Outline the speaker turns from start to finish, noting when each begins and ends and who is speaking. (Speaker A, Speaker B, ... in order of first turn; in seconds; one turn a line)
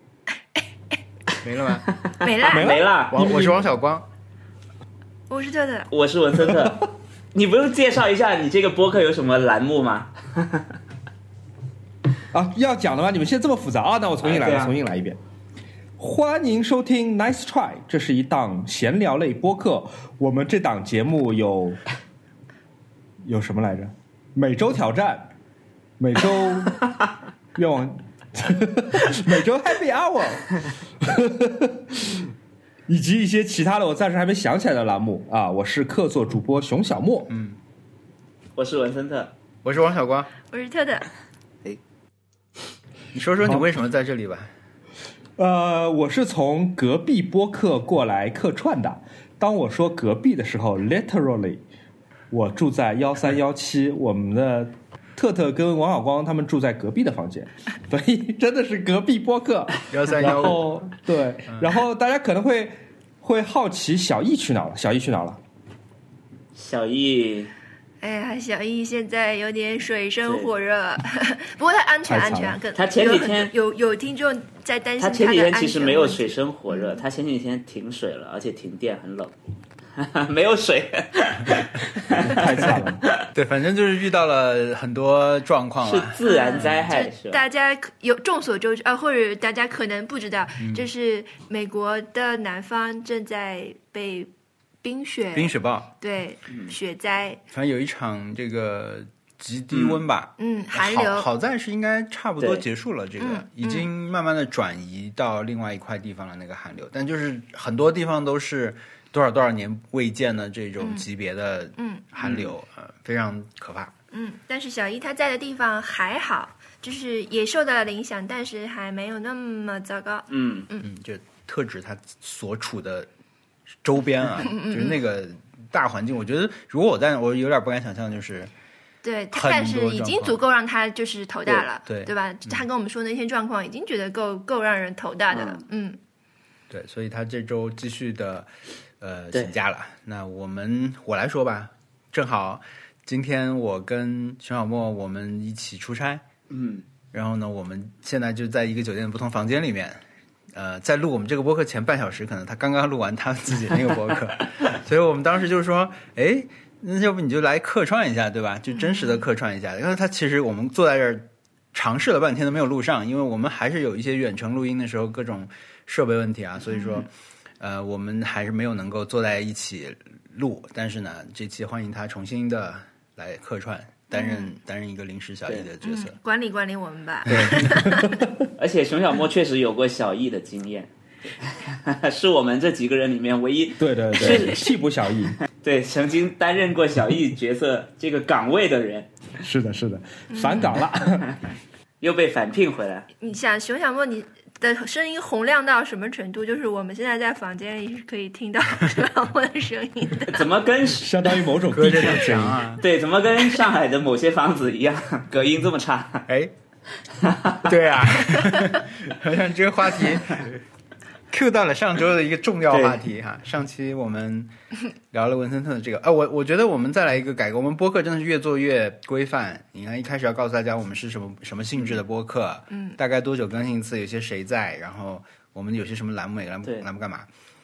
Speaker A: 1.4-1.9
Speaker B: 1.9-3.3
Speaker C: 2.2-2.9
Speaker D: 2.5-3.7
Speaker A: 3.1-4.0
Speaker C: 5.3-5.9
Speaker B: 5.9-10.7
Speaker D: 12.3-15.2
Speaker B: 14.2-14.7
Speaker D: 16.0-21.8
Speaker D: 23.2-25.3
Speaker D: 26.0-26.8
Speaker D: 27.5-32.1
Speaker D: 32.9-37.3
Speaker A: 37.3-37.6
Speaker B: 38.5-39.3
Speaker A: 39.6-40.3
Speaker C: 40.5-41.1
Speaker A: 43.1-44.5
Speaker D: 45.4-51.6
Speaker D: 52.3-65.4
Speaker A: 59.9-60.7
Speaker A: 61.5-61.7
Speaker B: 66.5-67.5
Speaker C: 68.0-77.0
Speaker B: 70.2-70.5
Speaker D: 72.0-72.6
Speaker B: 72.7-73.5
Speaker B: 75.0-79.3
Speaker B: 80.0-83.2
Speaker D: 82.1-83.0
Speaker A: 83.3-86.9
Speaker B: 85.8-87.5
Speaker C: 86.2-94.3
Speaker A: 90.6-90.9
Speaker C: 94.8-97.4
Speaker A: 95.3-95.9
Speaker B: 96.5-96.7
Speaker A: 97.5-113.9
Speaker B: 99.7-100.0
Speaker C: 100.4-101.2
Speaker C: 103.2-103.9
Speaker C: 110.8-111.0
Speaker C: 111.8-112.0
Speaker B: 112.2-112.5
Speaker C: 114.1-120.9
Speaker B: 120.3-120.7
Speaker A: 120.8-123.1
Speaker A: 123.8-128.5
Speaker C: 124.4-125.0
Speaker C: 129.0-136.0
Speaker A: 129.3-130.4
Speaker A: 131.9-132.7
Speaker B: 135.3-135.7
Speaker A: 136.7-146.2
Speaker B: 146.5-146.8
Speaker A: 147.1-150.0
Speaker A: 150.5-167.1
Speaker C: 166.7-167.1
Speaker A: 167.6-176.2
Speaker C: 174.1-174.5
Speaker C: 175.8-178.2
Speaker A: 177.3-177.7
Speaker D: 177.3-178.4
Speaker B: 178.6-184.7
Speaker D: 183.8-185.4
Speaker C: 184.2-184.6
Speaker B: 185.6-189.1
Speaker D: 189.4-191.3
Speaker C: 190.3-190.8
Speaker B: 192.0-193.1
Speaker C: 193.2-200.4
Speaker B: 200.3-201.1
Speaker D: 200.9-202.6
Speaker A: 201.7-202.8
Speaker B: 202.8-206.2
Speaker A: 206.3-206.5
Speaker B: 207.2-207.7
Speaker A: 207.6-210.6
Speaker C: 208.5-208.7
Speaker A: 211.3-214.5
Speaker B: 212.7-213.0
Speaker A: 215.1-227.3